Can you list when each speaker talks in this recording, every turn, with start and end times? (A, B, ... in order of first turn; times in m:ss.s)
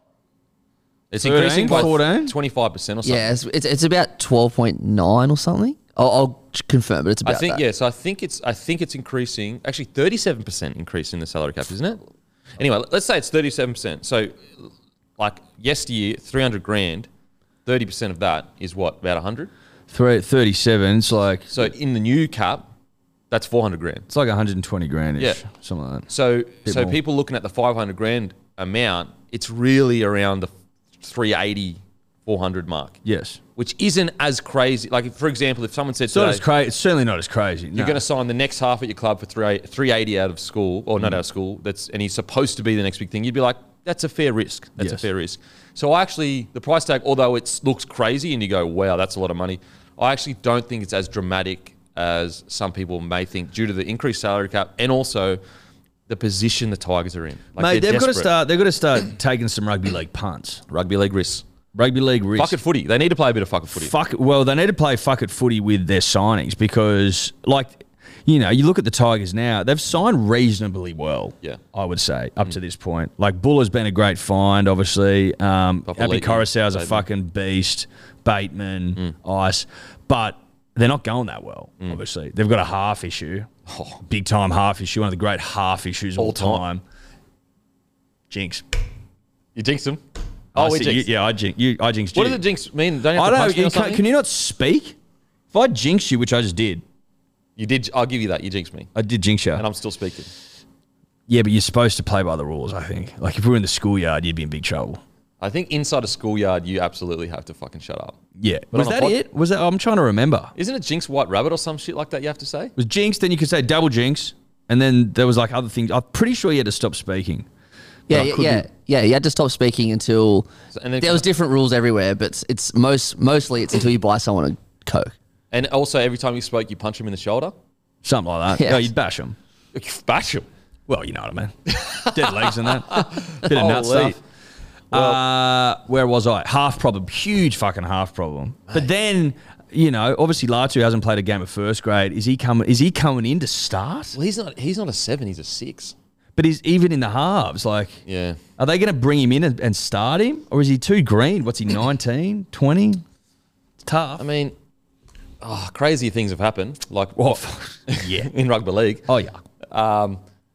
0:01.1-0:03.3 A
0:01.2-0:02.3 B
0:03.0-0:07.6 C
0:07.2-0:12.0 A
0:12.6-0:17.1 A
0:17.6-0:19.5 A
0:19.9-0:21.7 B
0:21.5-0:22.6 A
0:23.3-0:24.0 A
0:24.1-0:26.1 B
0:26.1-0:33.0 A
0:26.6-0:27.0 B
0:33.0-0:33.4 B
0:33.6-0:36.4 A
0:36.1-0:38.0 B
0:37.7-0:55.4 A
0:44.8-0:45.0 B
0:56.1-0:58.3 A
0:57.6-1:00.6 B
1:00.7-1:01.4 A
1:01.7-1:02.6 B
1:02.4-1:03.9 A
1:03.7-1:23.5 B
1:15.9-1:17.0 A
1:23.7-1:24.0 A
1:24.0-1:26.8 B
1:26.2-1:26.6 A
1:28.3-1:28.6 B
1:29.5-1:30.0 A
1:30.5-1:31.1 A
1:30.5-1:32.4 B
1:32.1-1:34.0 A
1:33.1-1:35.0 B
1:35.5-1:36.8 B
1:37.6-1:38.9 A
1:38.9-1:39.6 B
1:39.5-1:40.3 A
1:41.3-1:45.0 B
1:45.4-1:48.2 A
1:48.4-1:50.5 B
1:48.7-1:49.2 A
1:50.5-1:52.7 A
1:52.8-1:57.5 B
1:58.1-1:58.7 B
1:58.1-2:00.5 C
2:00.7-2:01.2 A
2:01.0-2:05.1 C
2:05.5-2:07.5 A
2:08.0-2:09.4 B
2:08.5-2:08.9 C
2:09.7-2:10.5 A
2:10.9-2:14.2 B
2:11.7-2:14.2 A
2:14.9-2:15.2 A
2:14.9-2:24.2 B
2:24.1-2:25.9 A
2:26.4-2:28.0 B
2:28.0-2:28.4 A
2:28.6-2:33.0 B
2:33.8-2:34.2 B
2:34.2-2:34.5 A
2:35.4-2:39.1 A
2:37.2-2:38.3 B
2:39.1-2:39.4 B
2:39.7-2:40.2 A